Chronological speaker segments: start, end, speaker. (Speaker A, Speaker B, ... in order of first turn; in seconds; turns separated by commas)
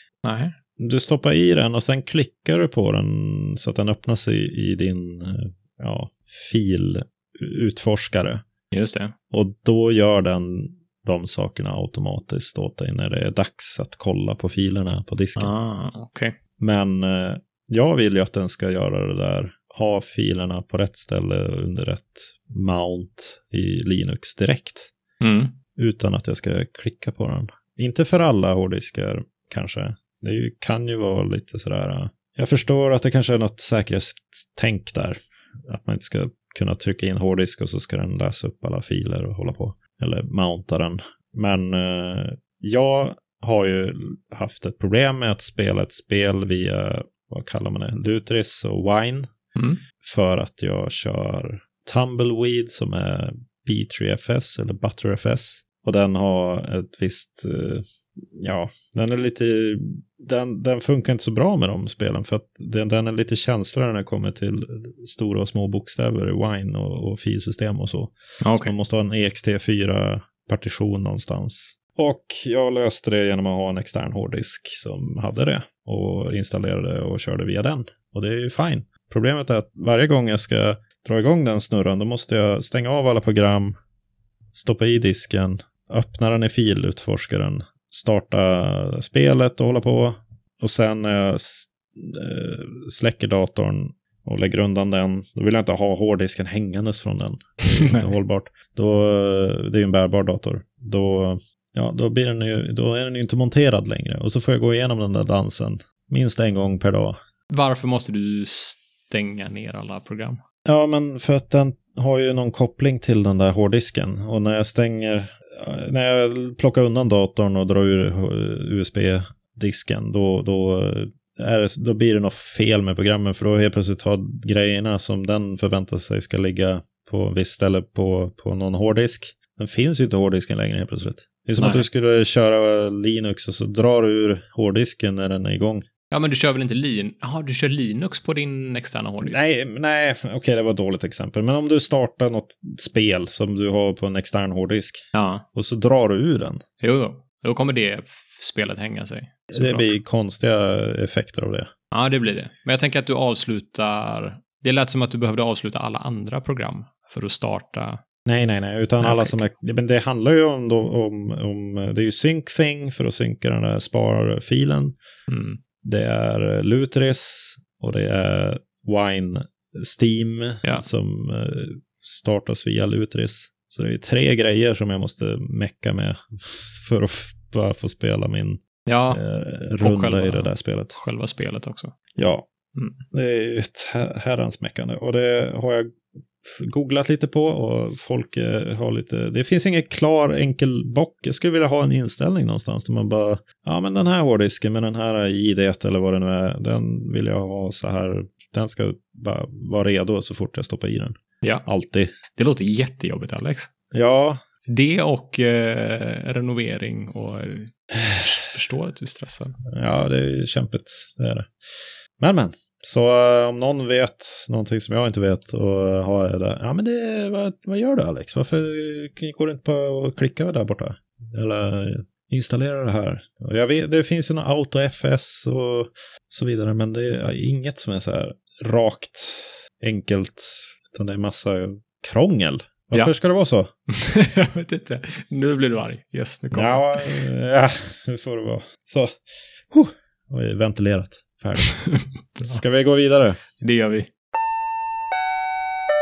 Speaker A: 0.2-0.5, Speaker B: 0.8-8.4, Speaker A: 8.7-9.1, Speaker B: 9.3-15.5, Speaker A: 15.3-16.3, Speaker B: 16.6-24.9, Speaker A: 25.2-25.6, Speaker B: 25.8-49.3, Speaker A: 49.5-49.8, Speaker B: 50.0-83.7, Speaker A: 68.4-68.7, Speaker B: 84.5-107.2, Speaker A: 97.6-98.1, Speaker A: 107.5-110.4, Speaker B: 110.6-135.8, Speaker A: 131.6-131.8, Speaker A: 136.1-139.4, Speaker B: 139.2-145.0, Speaker A: 145.1-145.4, Speaker B: 145.5-146.6, Speaker A: 146.8-149.9, Speaker B: 149.5-151.7, Speaker A: 151.9-158.0, Speaker B: 158.2-164.9, Speaker A: 159.0-159.4, Speaker A: 165.3-165.6, Speaker B: 165.8-181.0, Speaker A: 178.8-179.2, Speaker A: 179.8-181.9, Speaker B: 182.2-182.5, Speaker A: 182.7-183.0, Speaker B: 183.1-202.1, Speaker A: 202.3-203.7, Speaker B: 203.9-204.4, Speaker A: 204.7-209.6, Speaker B: 209.7-233.7, Speaker A: 233.9-237.3, Speaker B: 236.5-241.8, Speaker A: 241.6-242.6, Speaker B: 242.4-243.4, Speaker A: 243.6-244.1